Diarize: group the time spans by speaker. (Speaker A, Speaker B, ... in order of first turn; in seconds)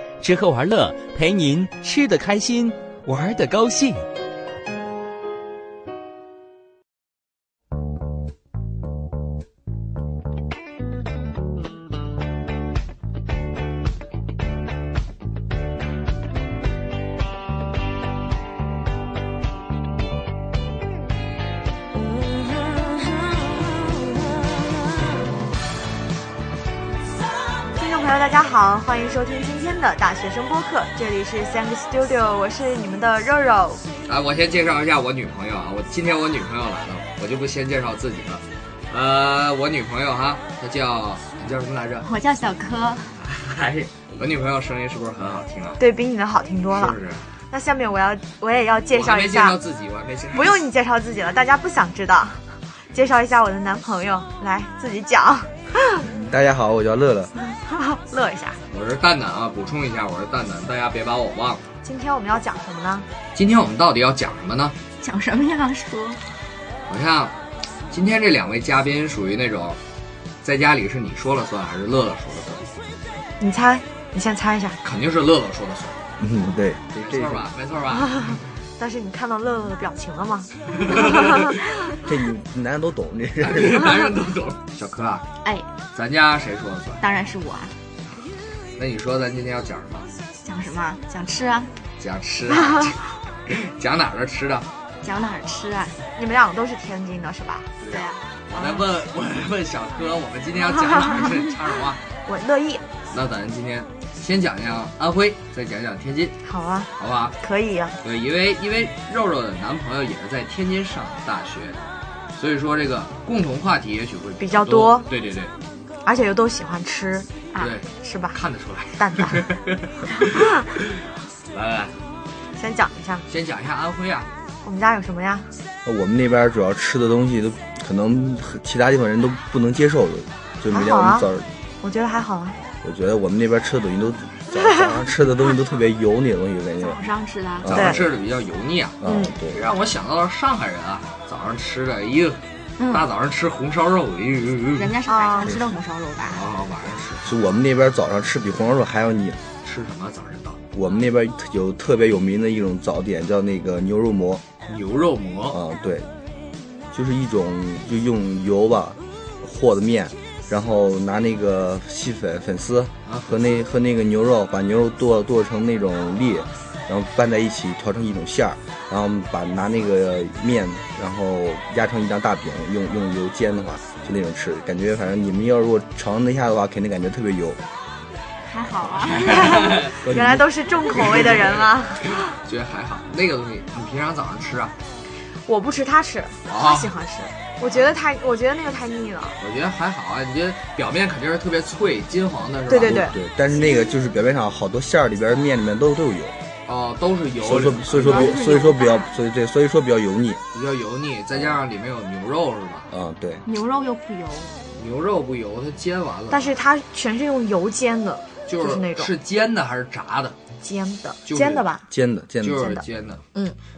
Speaker A: 0.2-4.0
Speaker B: 27.8-33.8, 45.8-47.0, 47.5-49.6, 50.3-56.0, 57.6-58.6, 61.8-63.1, 73.4-74.8, 77.9-81.5, 96.2-97.7, 98.5-98.8, 102.2-102.8, 106.4-107.9, 114.4-115.1, 116.0-117.3, 118.0-118.4, 119.0-119.5, 120.2-120.5, 122.5-123.2, 124.6-125.5, 130.7-131.3, 131.8-132.6, 137.7-138.1, 139.1-139.3, 145.1-145.6, 179.3-182.3, 185.4-189.4, 192.7-193.2, 206.3-209.1, 210.6-211.8
Speaker C: 34.0-42.1, 43.2-45.8, 46.7-47.2, 48.9-50.6, 58.7-61.6, 63.3-64.8, 66.9-67.3, 67.9-69.8, 70.4-72.7, 74.8-76.0, 77.0-78.4, 80.8-81.5, 83.4-85.3, 85.9-87.0, 88.8-90.1, 92.0-94.7, 97.8-102.0, 103.1-106.4, 107.0-107.3, 108.0-111.8, 112.3-115.5, 117.6-120.8, 121.5-121.9, 123.3-124.3, 137.6-142.4, 142.9-145.0, 146.3-147.4, 149.6-150.6, 154.7-155.6, 163.1-163.6, 178.9-179.9, 181.0-181.5, 182.0-184.7, 186.5-186.9, 187.6-187.9, 189.4-193.0, 196.7-198.4, 200.5-202.9, 204.7-206.6, 208.5-210.4, 211.2-211.7, 212.4-213.2
Speaker D: 42.0-43.2, 65.0-66.2, 85.4-85.7, 87.0-87.8, 90.4-91.7, 95.0-96.0, 97.8-98.2, 117.5-117.8, 136.8-137.7, 142.8-143.1, 144.7-146.5, 178.4-179.7, 197.9-199.1, 203.4-204.5
Speaker E: 56.0-57.3, 76.2-77.5, 82.0-84.0, 125.8-131.5, 132.8-137.0, 137.6-138.0, 139.0-139.6, 147.2-149.4, 150.7-154.4, 155.5-156.1, 156.9-177.6, 180.0-180.5, 192.8-196.3, 197.4-200.4, 201.3-201.6, 202.9-203.4, 211.9-212.7